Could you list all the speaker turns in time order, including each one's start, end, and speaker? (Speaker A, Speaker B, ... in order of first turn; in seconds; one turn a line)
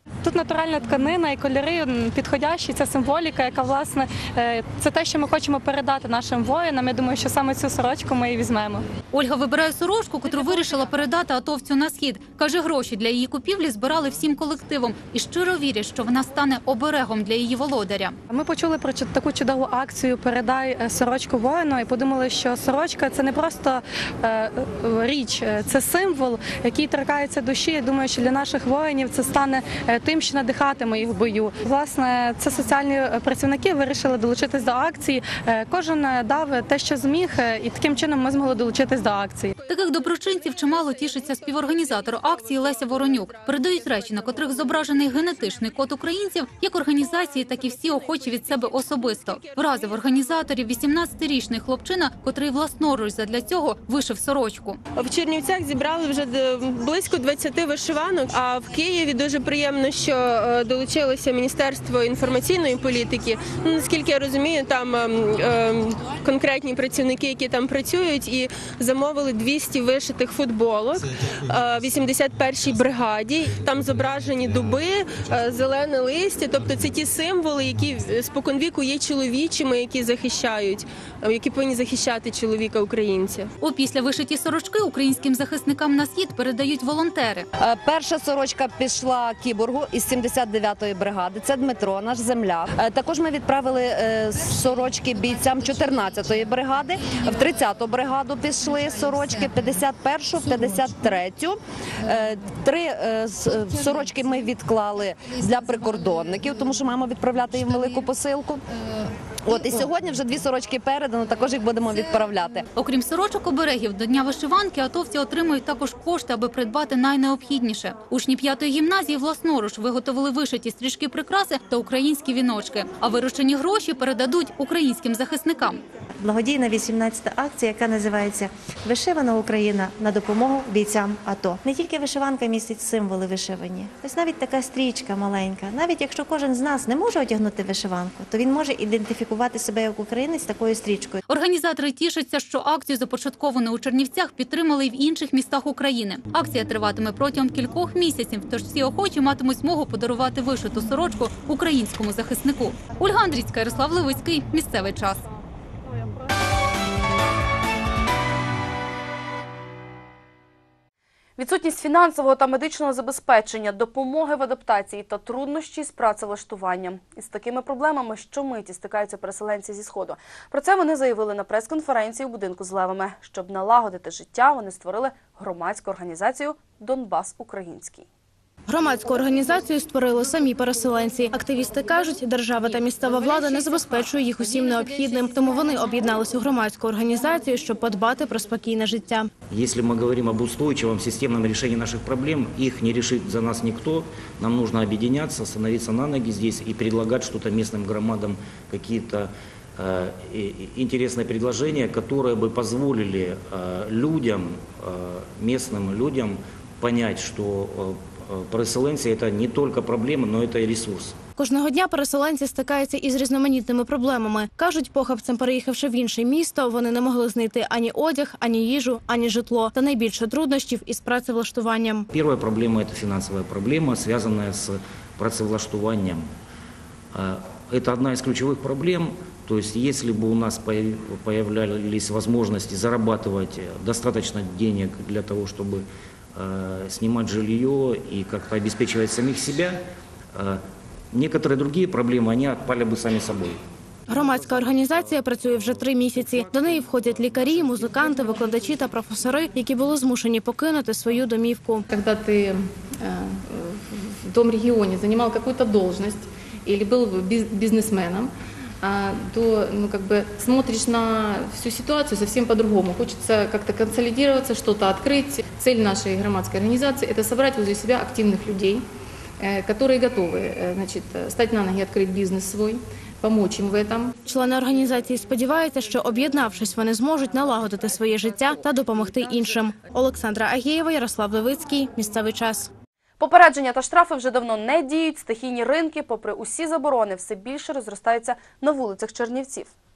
Speaker A: 0.2-8.8
Speaker B: 9.1-18.2
Speaker A: 18.3-39.5
Speaker B: 39.7-54.8
Speaker C: 55.0-83.5
Speaker B: 83.6-87.5
Speaker D: 87.6-108.6
Speaker D: 109.5-112.6
Speaker B: 112.8-125.8
Speaker E: 126.2-141.2
Speaker B: 141.3-155.2
Speaker F: 161.4-178.1
Speaker G: 178.7-189.3
Speaker H: 189.5-211.2
Speaker G: 211.4-222.1
Speaker H: 222.1-226.3
Speaker H: 227.1-239.8
Speaker H: 240.3-240.6
Speaker H: 241.1-243.6
Speaker G: 244.1-251.8
Speaker I: 251.9-258.3
Speaker I: 258.8-268.8
Speaker I: 269.4-274.2
Speaker G: 274.2-282.7
Speaker F: 283.2-289.7